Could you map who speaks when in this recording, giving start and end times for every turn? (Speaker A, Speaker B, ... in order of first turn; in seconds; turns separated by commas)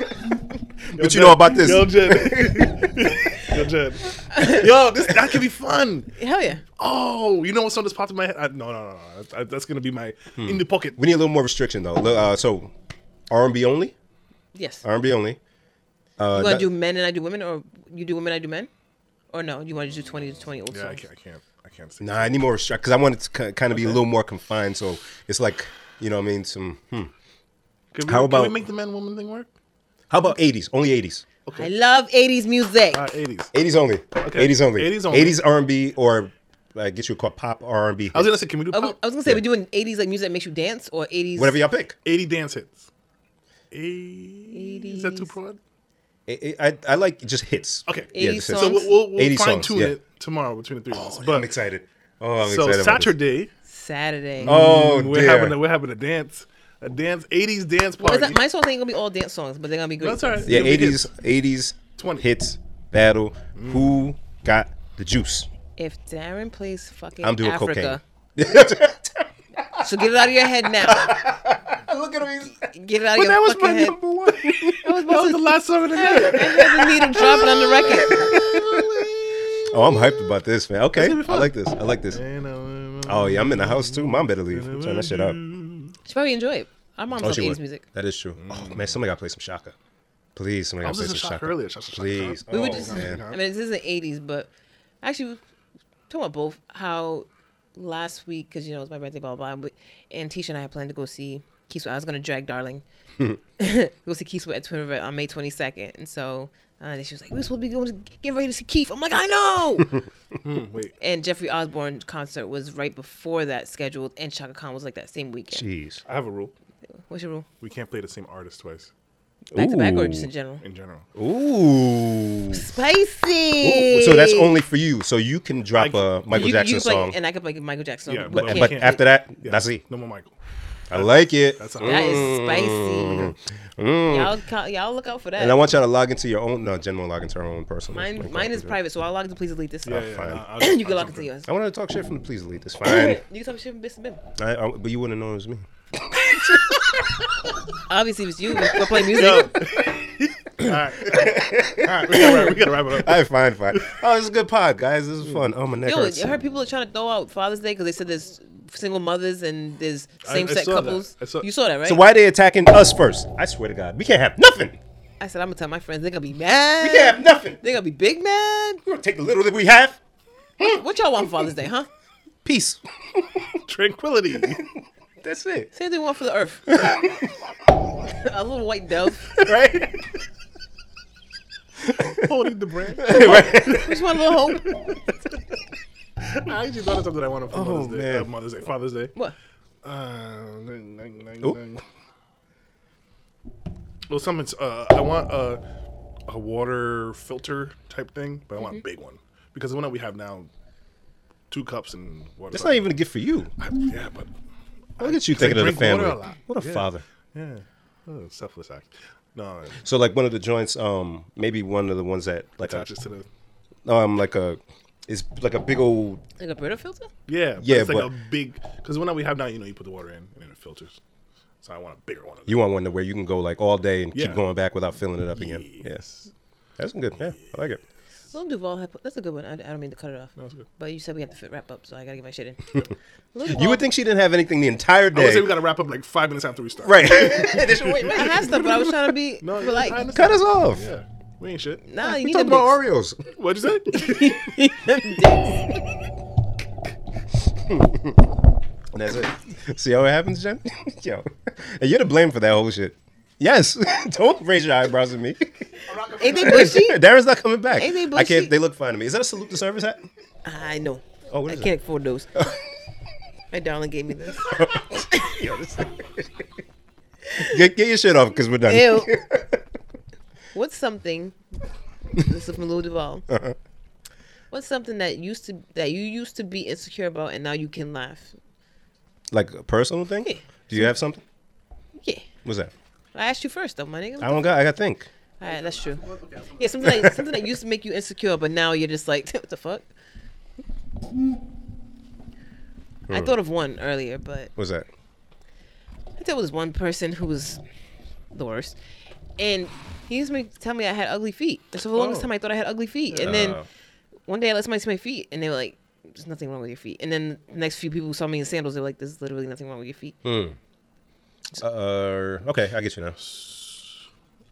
Speaker A: 0.8-2.9, Speaker B: 0.9-6.1, Speaker C: 4.3-4.7, Speaker C: 6.2-6.6, Speaker B: 6.8-11.0, Speaker A: 10.4-12.7, Speaker A: 13.3-13.9, Speaker C: 14.5-14.8, Speaker A: 14.8-15.4, Speaker A: 16.2-16.7, Speaker C: 16.3-18.7, Speaker C: 19.3-21.0, Speaker B: 20.7-22.4, Speaker A: 22.0-27.1, Speaker B: 23.7-24.0, Speaker B: 27.9-29.5, Speaker A: 28.1-28.6, Speaker A: 30.1-31.2, Speaker B: 31.4-31.7, Speaker C: 31.6-33.1, Speaker B: 32.9-33.5, Speaker A: 33.5-38.4, Speaker B: 34.2-35.4, Speaker B: 38.1-39.0, Speaker C: 38.7-41.6, Speaker A: 41.4-42.0, Speaker B: 42.0-42.9, Speaker B: 43.7-45.6, Speaker C: 44.5-45.3, Speaker A: 46.3-50.0, Speaker B: 47.9-51.5, Speaker C: 48.1-49.0, Speaker A: 50.9-53.1, Speaker B: 52.4-53.5, Speaker C: 53.7-54.5, Speaker B: 54.4-58.4, Speaker A: 54.4-55.6, Speaker C: 58.0-60.6, Speaker B: 60.0-61.1, Speaker A: 60.5-65.5, Speaker B: 61.9-62.3, Speaker B: 63.5-64.1, Speaker C: 65.8-68.0, Speaker A: 67.2-69.8, Speaker C: 69.7-71.2, Speaker A: 70.8-74.9, Speaker C: 72.6-74.0, Speaker C: 74.8-78.4, Speaker B: 74.9-80.3, Speaker A: 76.4-82.2, Speaker B: 80.9-81.5, Speaker B: 82.1-86.0, Speaker A: 83.0-85.4, Speaker C: 86.0-87.8, Speaker A: 87.2-89.7, Speaker B: 88.3-89.0, Speaker A: 90.3-93.2, Speaker B: 90.8-93.4, Speaker C: 92.5-94.5, Speaker C: 95.0-95.4, Speaker C: 96.1-102.8, Speaker C: 103.6-110.0, Speaker B: 110.4-110.9, Speaker C: 111.0-115.6, Speaker A: 115.5-116.0, Speaker B: 116.0-116.5, Speaker C: 117.1-117.5, Speaker B: 117.6-118.9, Speaker A: 119.5-120.3, Speaker C: 119.5-120.6, Speaker B: 120.6-121.0, Speaker A: 121.1-122.6, Speaker C: 122.5-124.5, Speaker A: 123.6-127.2, Speaker B: 125.7-126.2, Speaker C: 126.3-129.0, Speaker B: 128.1-130.3, Speaker A: 128.3-129.8, Speaker A: 130.9-134.3, Speaker B: 130.9-132.3, Speaker C: 131.8-133.3, Speaker C: 134.1-135.6, Speaker A: 135.4-138.8, Speaker C: 137.9-141.5, Speaker B: 139.8-141.3, Speaker A: 139.9-140.4, Speaker A: 141.4-143.2, Speaker C: 142.8-144.2, Speaker A: 144.4-147.1, Speaker C: 147.9-149.7, Speaker B: 148.8-154.0, Speaker A: 151.0-156.4, Speaker C: 155.8-162.0, Speaker B: 160.2-161.5, Speaker A: 161.8-164.8, Speaker C: 165.2-168.8, Speaker A: 166.8-167.6, Speaker A: 168.8-170.0, Speaker C: 170.6-171.9, Speaker A: 172.4-173.6, Speaker B: 173.7-174.6, Speaker A: 175.2-175.7, Speaker C: 175.7-176.8, Speaker A: 176.7-177.3, Speaker C: 178.0-179.5, Speaker A: 179.4-180.1, Speaker A: 181.8-182.3, Speaker B: 182.1-183.7, Speaker A: 183.0-184.0, Speaker C: 183.1-184.7, Speaker B: 186.3-189.1, Speaker A: 187.5-188.3, Speaker B: 189.8-191.8, Speaker B: 194.1-195.6, Speaker B: 196.3-200.5, Speaker B: 201.5-202.9, Speaker A: 202.5-203.5, Speaker B: 203.6-204.3, Speaker B: 205.0-209.8, Speaker A: 205.0-207.0, Speaker A: 209.8-212.9, Speaker B: 212.6-213.3, Speaker A: 213.8-216.2, Speaker C: 216.4-217.1, Speaker B: 217.3-221.0, Speaker A: 217.6-218.1, Speaker B: 221.6-222.6, Speaker A: 222.5-226.0, Speaker B: 224.1-224.4, Speaker B: 225.3-226.3, Speaker A: 226.8-227.8, Speaker C: 228.3-232.8, Speaker B: 230.4-230.6, Speaker C: 233.3-233.8, Speaker A: 233.4-235.6, Speaker B: 235.1-241.8, Speaker A: 236.8-238.5, Speaker C: 237.9-240.1, Speaker A: 240.1-240.9, Speaker C: 241.9-242.8, Speaker A: 242.0-243.3, Speaker B: 243.3-244.3, Speaker C: 243.9-245.8, Speaker A: 247.5-248.2, Speaker A: 248.9-255.5, Speaker B: 255.9-256.8, Speaker C: 256.1-257.0, Speaker A: 256.3-260.0, Speaker C: 257.8-258.5, Speaker C: 260.4-262.5, Speaker A: 261.3-261.7, Speaker C: 263.5-265.4, Speaker A: 264.5-266.3, Speaker C: 267.3-267.6, Speaker A: 267.4-269.6, Speaker C: 268.7-269.2, Speaker C: 270.5-271.4, Speaker C: 272.1-273.2, Speaker A: 273.3-273.6, Speaker C: 274.5-278.3, Speaker A: 279.3-281.2, Speaker C: 282.0-282.2, Speaker A: 282.4-282.7, Speaker C: 283.1-284.5, Speaker A: 284.2-285.1, Speaker C: 285.4-289.9, Speaker B: 285.4-286.6, Speaker A: 286.8-287.1, Speaker A: 293.1-293.3, Speaker C: 293.1-294.5, Speaker A: 294.6-294.9, Speaker C: 296.2-297.6, Speaker C: 298.3-298.8, Speaker C: 299.4-303.6, Speaker B: 301.9-302.3, Speaker B: 303.1-303.6, Speaker A: 303.2-303.6, Speaker C: 304.3-310.2, Speaker A: 310.2-310.6, Speaker A: 311.6-313.2, Speaker B: 313.2-314.0